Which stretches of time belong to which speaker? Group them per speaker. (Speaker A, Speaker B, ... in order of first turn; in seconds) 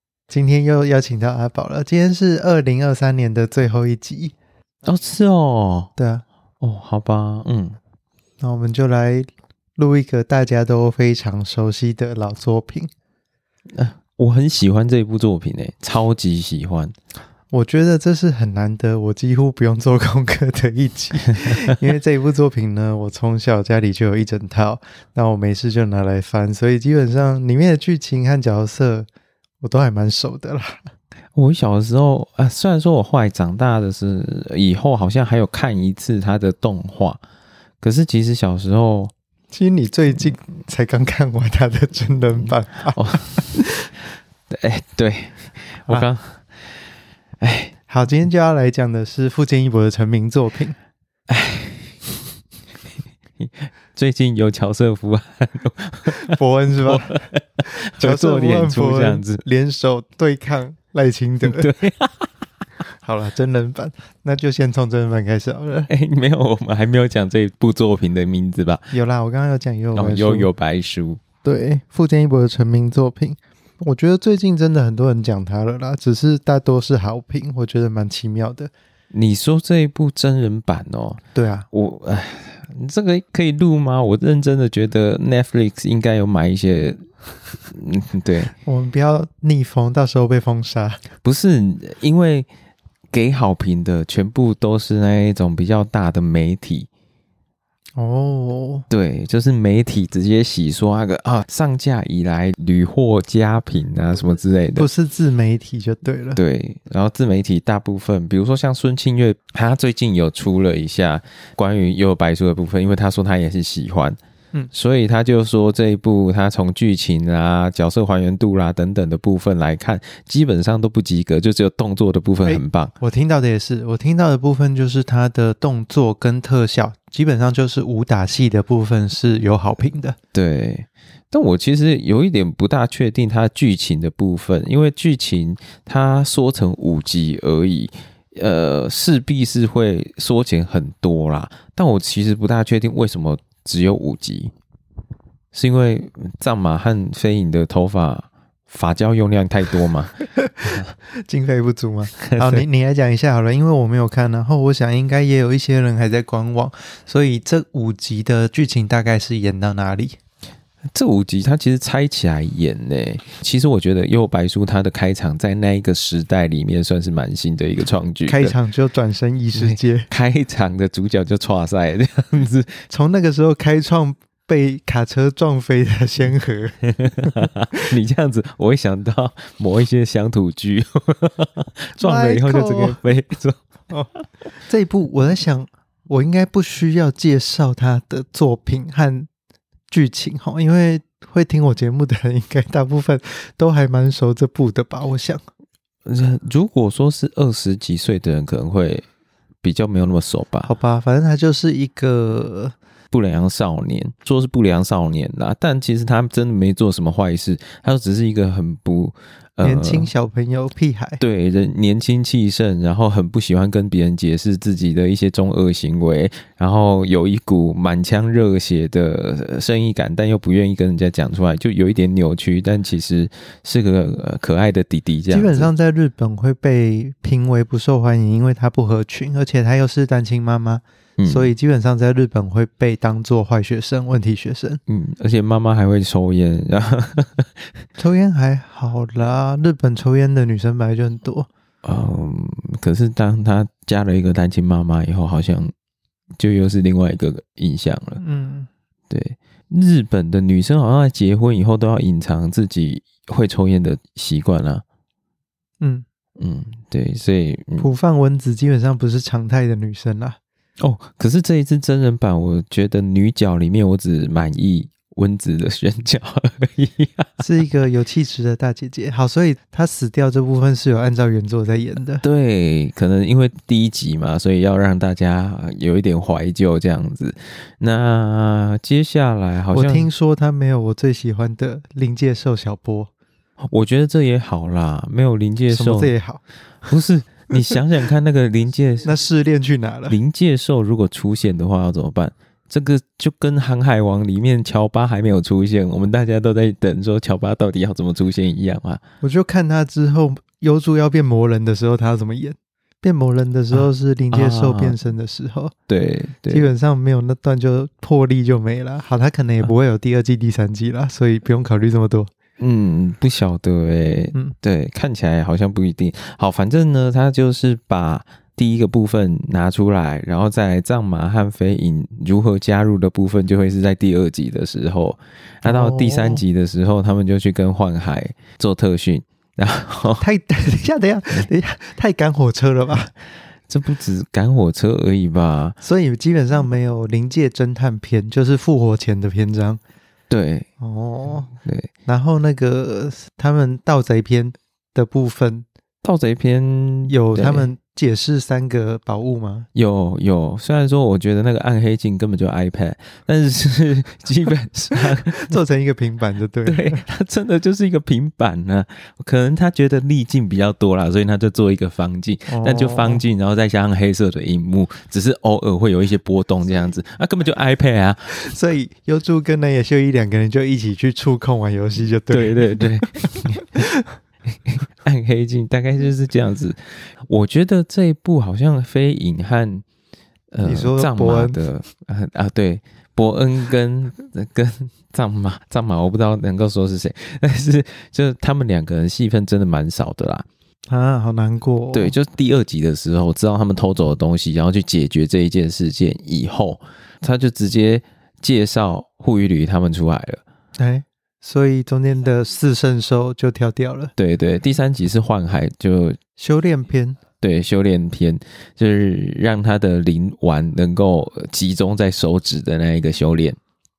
Speaker A: 0.3-4.3, 6.0-6.2, 8.4-12.9, 17.5-29.1, 29.6-30.8, 39.5-43.9, 47.9-50.8, 56.1-61.7, 63.0-65.9, 68.9-70.5, 71.4-78.7, 81.3-81.7, 88.6-91.0, 98.0-98.8, 104.8-106.4, 122.5-130.2, 150.4-160.2, 168.2-170.1, 172.9-177.5, 182.0-183.0, 183.9-189.3, 189.9-195.4, 200.6-202.7, 209.6-211.2, 225.3-234.8, 238.0-241.5, 248.2-248.7, 257.8-260.4, 267.4-272.2, 279.7-283.1, 285.7-287.8, 289.0-290.2, 299.2-305.7, 306.5-312.3, 325.6-326.4, 330.2-333.1, 335.8-339.8, 340.8-341.5, 342.1-345.7, 347.1-349.7, 355.0-357.0, 362.5-363.2, 368.3-374.1, 380.6-381.6, 390.9-392.1, 400.8-404.1, 406.4-407.2
Speaker B: 4.8-5.9, 6.6-7.8, 13.7-16.9, 31.3-37.2, 37.8-39.1, 42.9-43.4, 44.5-46.8, 47.4-47.7, 51.3-52.2, 53.4-59.4, 61.4-62.3, 65.9-68.9, 69.9-71.2, 79.1-81.2, 81.7-87.0, 87.7-88.5, 91.2-92.5, 93.1-96.9, 98.9-104.9, 106.3-114.2, 114.7-122.9, 130.3-144.5, 145.5-150.9, 152.2-152.6, 160.9-168.5, 169.5-172.8, 177.0-183.6, 196.1-199.1, 199.6-200.7, 203.1-210.1, 211.2-225.7, 231.2-231.5, 234.9-237.8, 241.8-245.7, 246.4-248.2, 249.1-254.8, 256.4-257.9, 260.8-267.4, 272.2-280.1, 283.6-286.1, 286.9-289.1, 290.1-299.0, 303.7-305.0, 305.9-306.7, 312.6-330.2, 333.7-335.8, 340.3-340.7, 341.6-341.9, 346.0-347.7, 349.7-355.6, 356.6-368.3, 372.3-373.9, 374.5-379.8, 380.5-390.4, 391.9-400.4, 404.2-406.2, 407.4-413.6